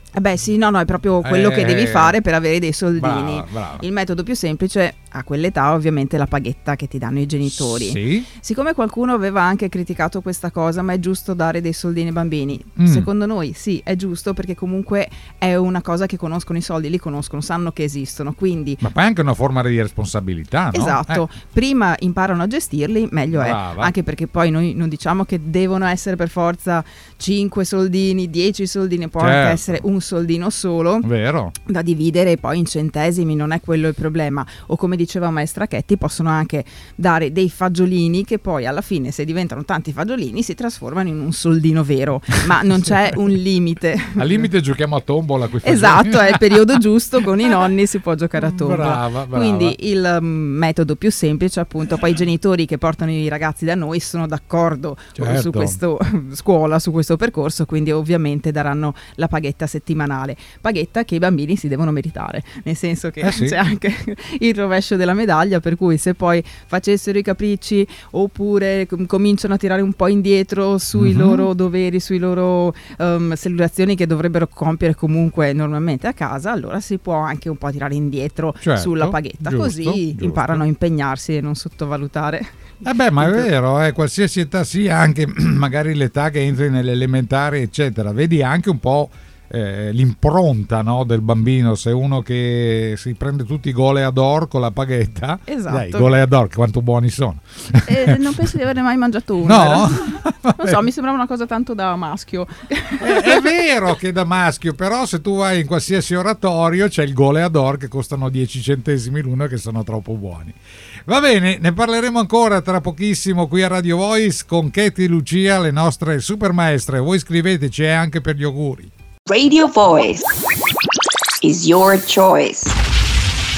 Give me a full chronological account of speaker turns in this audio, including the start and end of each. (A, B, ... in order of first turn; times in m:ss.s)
0:00.1-0:18.8 A
0:01.2-0:02.2 B
0:03.0-0:03.8 B
0:07.5-0:08.3 B
0:12.8-0:13.1 B
0:18.8-0:21.2 B
0:20.7-0:31.1 A
0:23.3-0:23.9 B
0:29.2-0:29.8 B
0:31.0-0:31.5 B
0:31.6-0:44.5 A
0:44.2-0:46.6 B
0:45.6-1:23.5 A
0:48.4-0:49.8 B
0:55.2-0:55.8 B
1:03.2-1:03.6 B
1:10.9-1:11.5 B
1:18.6-1:20.6 B
1:22.8-1:38.2 B
1:35.5-1:36.1 A
1:37.8-1:43.5 A
1:39.4-1:40.8 B
1:43.0-1:58.9 B
1:59.2-2:00.3 C
2:01.4-2:02.7 C